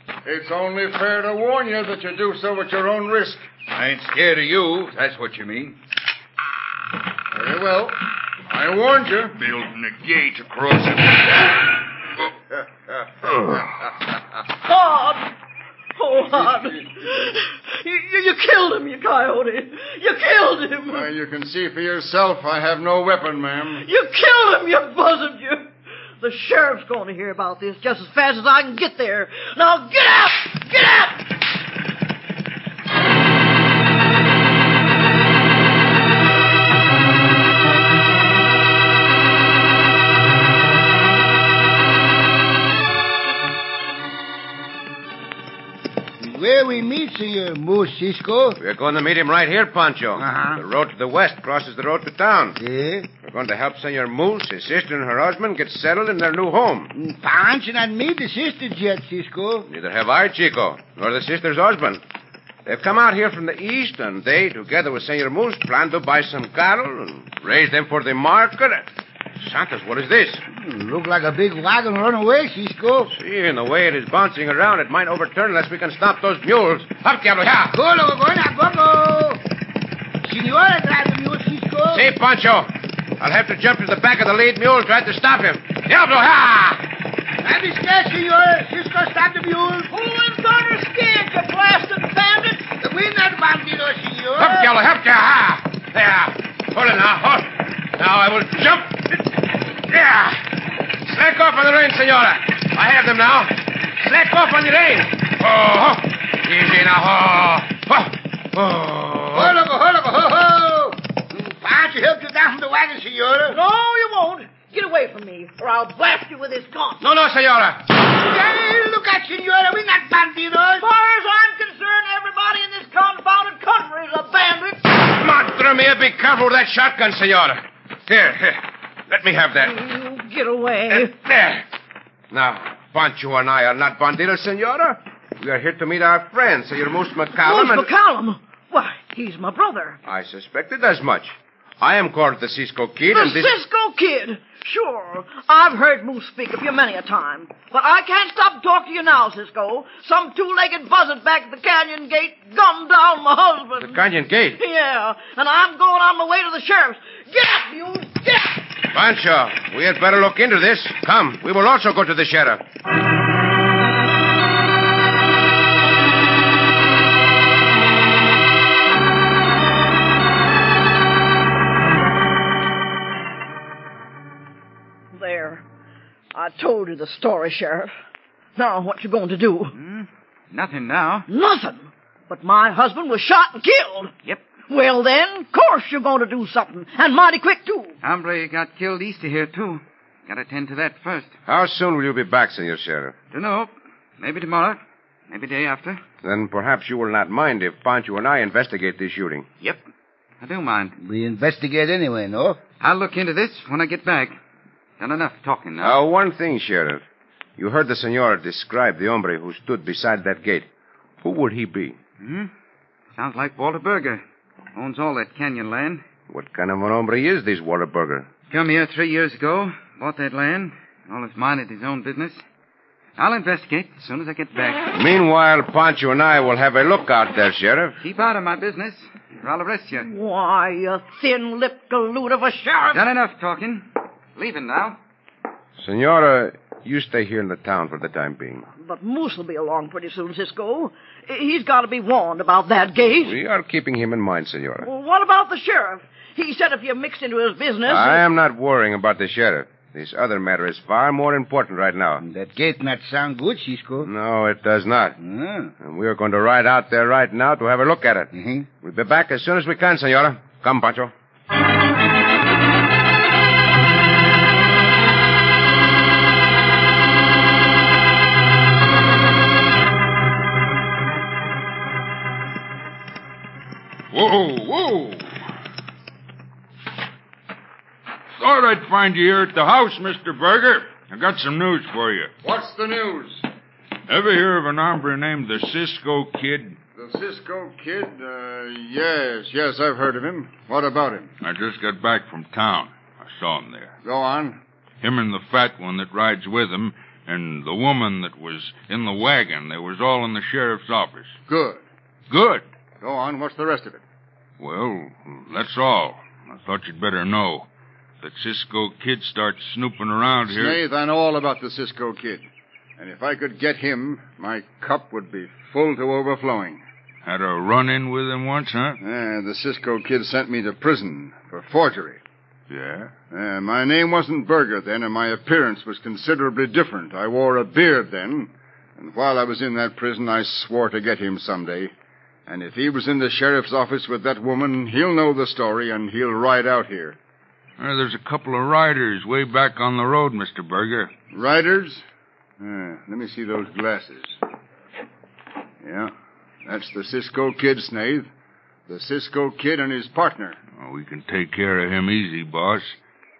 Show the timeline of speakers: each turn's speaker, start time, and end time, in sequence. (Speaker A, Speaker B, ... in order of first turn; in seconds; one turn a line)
Speaker A: 0.2-3.5
Speaker B: 3.7-5.7
Speaker A: 7.3-9.4
Speaker B: 9.4-11.5
Speaker C: 14.6-15.3
Speaker C: 15.9-21.1
Speaker A: 16.3-16.8
Speaker A: 20.9-23.9
Speaker C: 23.8-25.7
Speaker C: 26.2-31.2
Speaker D: 46.2-48.6
Speaker E: 48.6-52.6
Speaker D: 50.1-50.6
Speaker D: 52.6-53.1
Speaker E: 53.2-56.9
Speaker D: 56.9-59.7
Speaker E: 59.7-62.0
Speaker E: 62.6-68.8
Speaker E: 69.4-70.4
Speaker D: 70.5-73.1
Speaker E: 73.1-77.8
Speaker D: 77.7-79.4
Speaker D: 80.2-82.1
Speaker E: 81.9-86.8
Speaker D: 87.4-89.9
Speaker C: 89.9-92.7
Speaker D: 92.8-94.7
Speaker E: 94.4-109.6
Speaker D: 109.3-113.6
Speaker C: 113.5-117.0
Speaker E: 117.0-117.9
Speaker D: 118.0-120.8
Speaker C: 120.8-124.8
Speaker E: 124.9-129.8
Speaker C: 129.6-131.1
Speaker E: 130.9-131.6
Speaker E: 132.3-137.9
Speaker C: 137.4-140.0
Speaker E: 140.0-143.5
Speaker C: 143.1-154.0
Speaker E: 153.8-154.6
Speaker C: 154.5-158.6
Speaker E: 158.9-162.6
Speaker C: 175.1-175.6
Speaker C: 176.3-177.9
Speaker C: 178.6-179.7
Speaker F: 179.8-181.2
Speaker B: 180.6-180.8
Speaker C: 181.3-184.1
Speaker C: 184.7-187.9
Speaker F: 188.0-191.3
Speaker B: 188.9-189.5
Speaker B: 190.3-191.2
Speaker E: 191.4-193.1
Speaker F: 193.3-193.7
Speaker F: 194.2-194.8
Speaker B: 194.3-194.6
Speaker F: 195.3-196.0
Speaker E: 196.2-199.5
Speaker F: 200.4-200.9
Speaker D: 201.0-202.6
Speaker F: 202.8-204.3
Speaker B: 202.9-204.0
Speaker F: 205.0-206.0
Speaker B: 205.0-205.8
Speaker E: 205.8-207.0
Speaker E: 207.6-210.7
Speaker E: 211.2-212.0
Speaker F: 212.2-212.5
Speaker F: 213.2-214.2
Speaker B: 213.5-213.9
Speaker F: 214.8-216.0
Speaker B: 214.9-215.6
Speaker E: 216.3-218.3
Speaker F: 218.5-222.4
Speaker B: 218.7-220.2
Speaker F: 223.2-224.8
Speaker E: 224.9-228.0
Speaker F: 228.0-230.0
Speaker C: 230.0-233.0
Speaker F: 232.9-233.8
Speaker F: 234.4-235.0
Speaker E: 235.8-238.7
Speaker C: 238.8-243.3
Speaker E: 243.2-244.9
Speaker C: 244.8-248.2
Speaker E: 247.8-252.2
Speaker D: 252.2-254.1
Speaker E: 254.0-255.2
Speaker D: 255.2-255.7
Speaker E: 255.8-258.3
Speaker D: 258.3-258.7
Speaker E: 258.8-261.1
Speaker G: 274.1-275.3
Speaker G: 278.4-282.3
Speaker A: 282.4-283.4
Speaker G: 284.1-286.8
Speaker A: 286.9-291.3
Speaker G: 291.4-293.9
Speaker A: 294.0-294.6
Speaker G: 295.0-301.4
Speaker A: 301.5-301.8
Speaker G: 302.3-302.6
Speaker A: 303.0-304.0
Speaker G: 304.6-307.7
Speaker G: 308.2-310.8
Speaker A: 310.5-312.4
Speaker A: 313.0-316.8
Speaker G: 317.2-319.0
Speaker A: 319.0-322.2
Speaker G: 322.7-323.1
Speaker A: 323.3-331.9
Speaker A: 332.5-337.2
Speaker G: 337.8-341.1
Speaker A: 341.3-342.0
Speaker A: 342.6-344.4
Speaker A: 345.8-346.1
Speaker A: 346.6-348.3
Speaker A: 348.9-350.6
Speaker G: 350.7-353.0